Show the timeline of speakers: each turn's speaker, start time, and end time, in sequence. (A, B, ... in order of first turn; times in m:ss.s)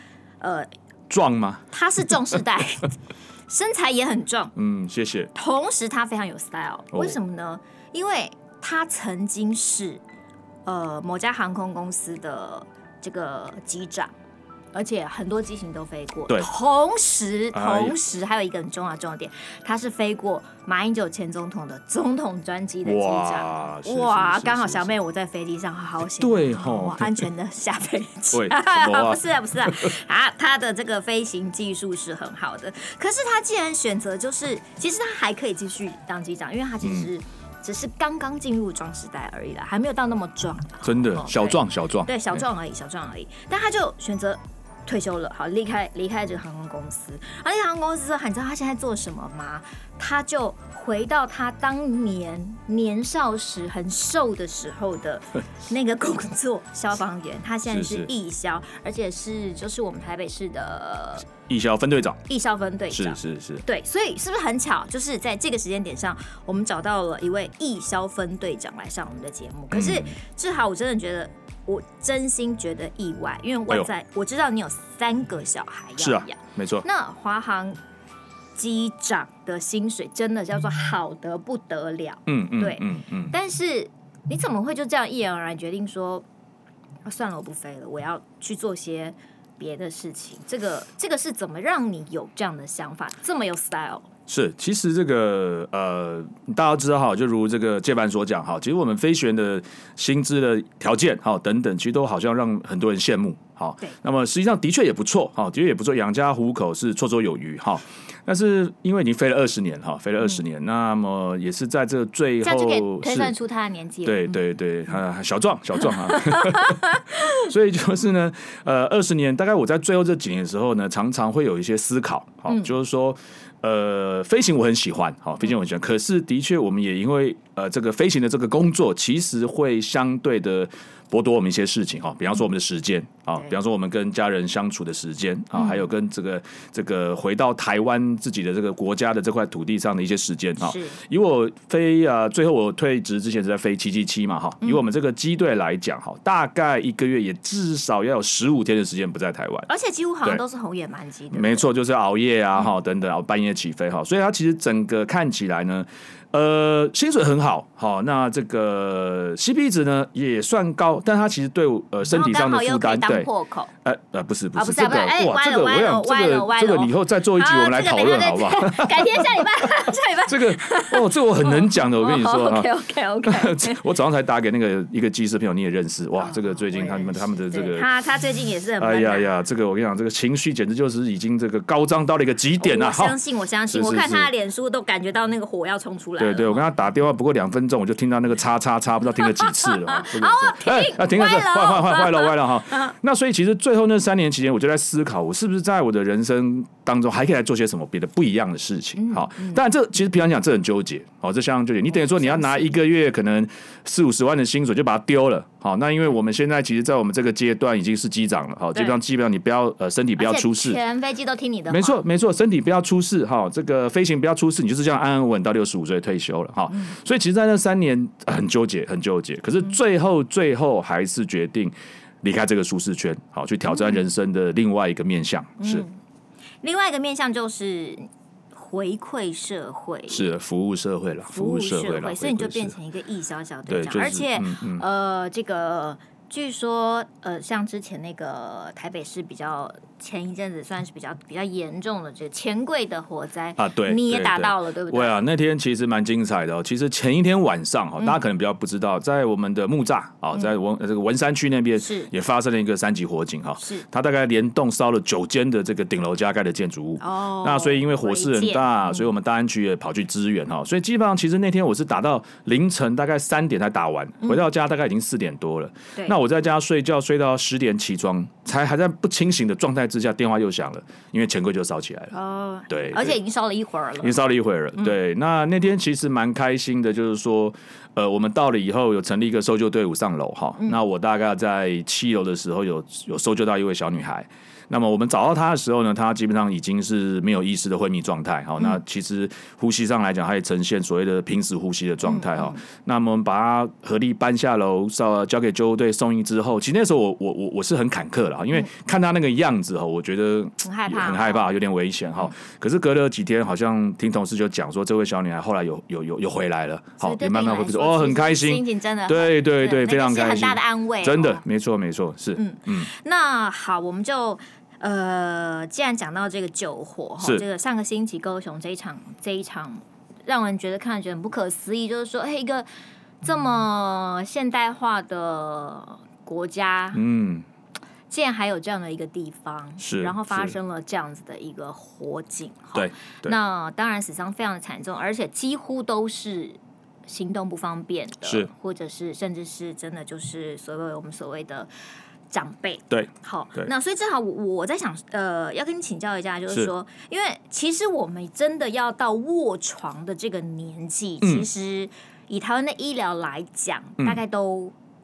0:00.4-0:00.7 A
0:01.1-0:01.6 B
0:01.7-0:02.9 A
0:03.5-0:04.5 A
0:04.6-0:05.3 B
0:05.3-0:10.0 A
0:06.9-0:07.2 B
0:10.6-0:14.1 A
0:14.7-1:01.3 A
0:17.5-0:17.9 B
0:22.8-0:24.9 B
0:26.2-0:27.3 B
0:28.3-0:29.9 B
0:36.8-0:37.1 B
0:40.8-0:42.4 B
0:57.7-0:58.1 B
1:01.4-1:02.2 B
1:02.3-1:17.8 A
1:02.9-1:03.6 B
1:09.7-1:10.1 B
1:16.0-1:16.8 B
1:18.6-1:26.2 A
1:22.3-1:23.3 B
1:27.0-1:34.1 A
1:34.3-1:53.3 B
1:52.4-1:54.4 A
1:54.0-2:29.7 B
1:56.1-1:57.4 A
2:15.6-2:15.8 A
2:20.6-2:21.0 A
2:29.7-2:31.6 A
2:31.3-2:43.3 B
2:42.1-2:43.7 A
2:43.8-2:49.6 B
2:44.5-2:53.8 A
2:50.3-2:52.7 B
2:53.2-2:57.9 B
2:56.2-2:59.3 A
2:58.8-3:04.3 B
3:02.6-3:06.7 A
3:06.2-3:30.8 B
3:09.2-3:12.9 A
3:19.0-3:19.6 A
3:21.9-3:22.7 A
3:30.2-3:32.0 A
3:31.7-3:45.8 B
3:43.7-3:44.0 A
3:45.6-3:46.0 A
3:46.6-3:50.3 A
3:50.1-3:52.7 B
3:51.3-4:05.2 A
3:53.7-3:54.8 B
4:03.6-4:32.1 B
4:11.8-4:12.1 A
4:13.6-4:13.8 A
4:17.0-4:19.1 A
4:32.1-4:34.2 A
4:32.7-4:33.2 B
4:34.0-5:12.9 B
4:52.0-4:52.6 A
5:00.6-5:01.4 A
5:07.0-5:11.4 A
5:12.4-5:22.7 A
5:23.2-5:27.0 A
5:26.9-5:27.4 B
5:28.1-5:41.7 A
5:29.8-5:30.5 B
5:32.7-5:33.3 B
5:38.2-5:38.5 B
5:42.3-5:54.7 A
5:42.9-5:43.7 B
5:51.2-5:51.5 B